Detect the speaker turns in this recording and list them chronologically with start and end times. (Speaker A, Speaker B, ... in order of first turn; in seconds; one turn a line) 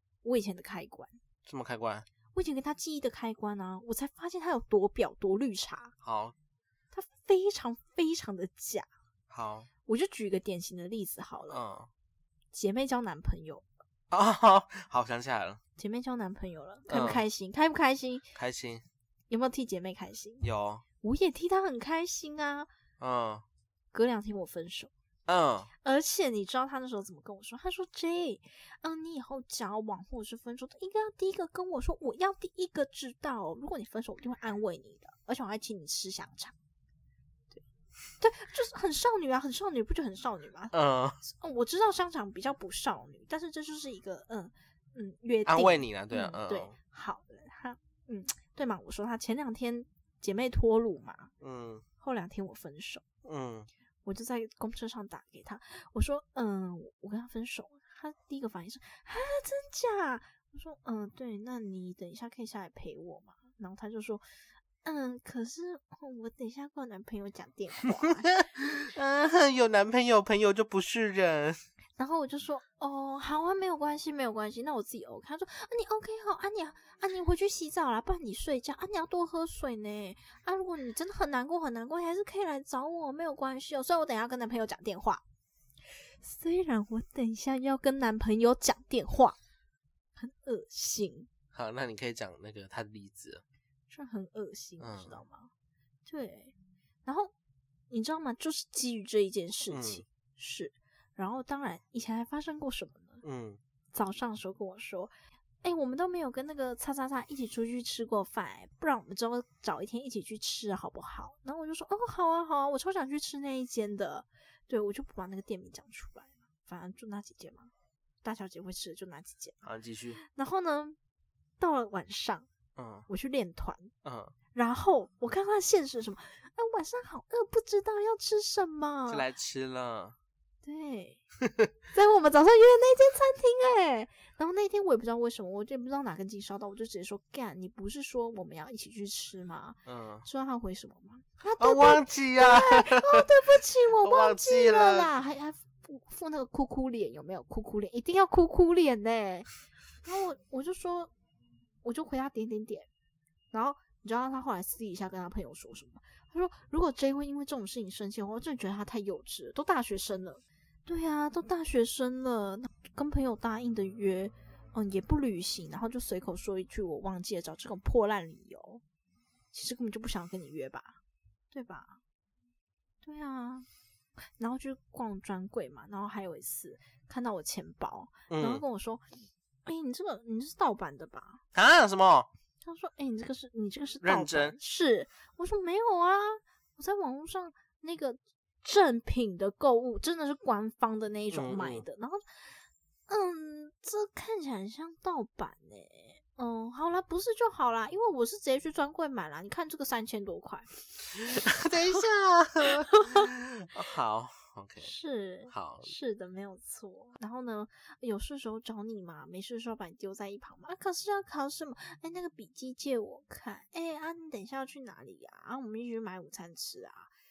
Speaker A: 0.2-1.2
Speaker B: 1.4-2.1
Speaker A: 2.3-5.9
Speaker B: 6.0-6.3
Speaker A: 6.9-8.9
Speaker B: 9.3-9.7
Speaker A: 9.8-11.6
Speaker B: 11.5-11.9
Speaker A: 12.5-13.7
Speaker B: 14.1-15.6
Speaker A: 15.8-18.2
Speaker B: 16.9-17.2
Speaker B: 18.3-18.8
Speaker A: 19.3-20.5
Speaker B: 20.4-20.8
Speaker A: 21.0-22.7
Speaker B: 23.0-23.4
Speaker A: 23.9-24.9
Speaker B: 25.3-25.7
Speaker A: 25.8-36.5
Speaker A: 38.2-51.3
Speaker B: 40.7-41.2
Speaker B: 45.5-46.8
Speaker B: 51.4-51.8
Speaker A: 52.0-53.0
Speaker B: 53.2-53.7
Speaker A: 54.0-64.2
Speaker A: 64.8-68.3
Speaker B: 68.5-71.6
Speaker A: 72.0-85.2
Speaker A: 86.0-89.4
Speaker A: 90.2-91.3
Speaker B: 91.5-93.4
Speaker A: 93.9-95.5
Speaker B: 94.8-95.2
Speaker A: 96.0-97.3
Speaker A: 97.9-103.2
Speaker B: 99.7-100.0
Speaker B: 103.2-103.6
Speaker A: 103.9-105.1
Speaker A: 105.6-117.7
Speaker A: 118.2-119.5
Speaker B: 119.6-120.2
Speaker A: 120.2-121.0
Speaker A: 121.6-122.5
Speaker B: 122.8-123.1
Speaker A: 123.1-123.9
Speaker B: 124.0-124.3
Speaker A: 124.5-129.3
Speaker B: 129.1-130.2
Speaker A: 130.6-131.2
Speaker A: 131.9-151.1
Speaker B: 139.8-140.2
Speaker B: 141.6-143.2
Speaker B: 144.0-145.1
Speaker A: 151.8-152.9
Speaker A: 153.5-168.8
Speaker A: 169.5-171.0
Speaker A: 171.5-172.0
Speaker A: 173.0-173.7
Speaker A: 174.4-181.4
Speaker B: 178.3-178.6
Speaker B: 181.5-182.3
Speaker A: 182.6-202.0
Speaker B: 184.0-184.6
Speaker B: 191.3-191.8
Speaker B: 201.3-204.9
Speaker A: 202.6-203.3
Speaker A: 204.8-217.1
Speaker B: 205.5-205.9